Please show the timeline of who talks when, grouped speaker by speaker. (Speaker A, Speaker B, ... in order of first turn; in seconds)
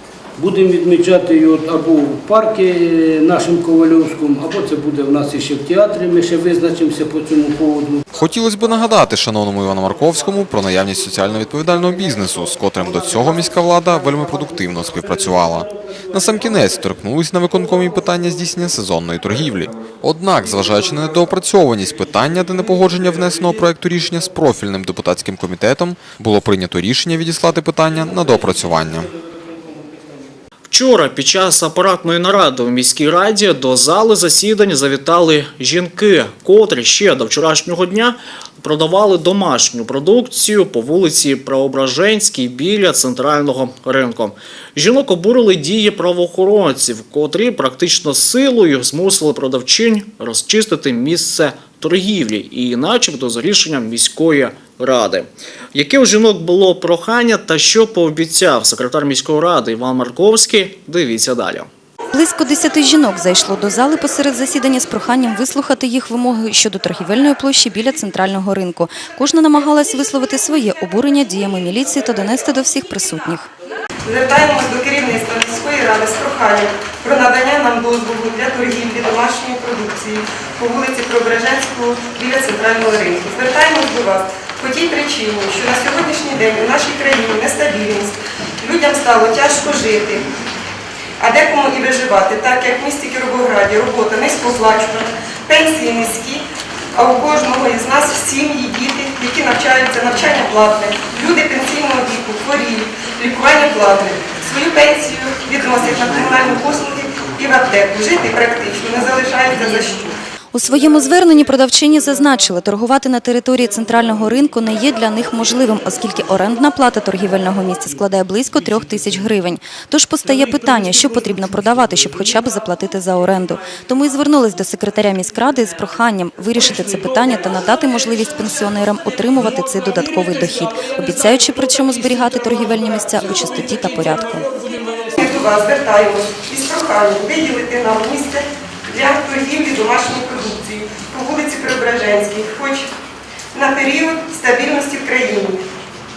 Speaker A: 0.4-8.0
Speaker B: 8.2-29.1
Speaker C: 30.7-61.7
Speaker D: 62.1-73.5, 110.5-134.5
Speaker E: 74.0-90.3, 91.2-110.2, 135.2-142.9, 143.5-145.7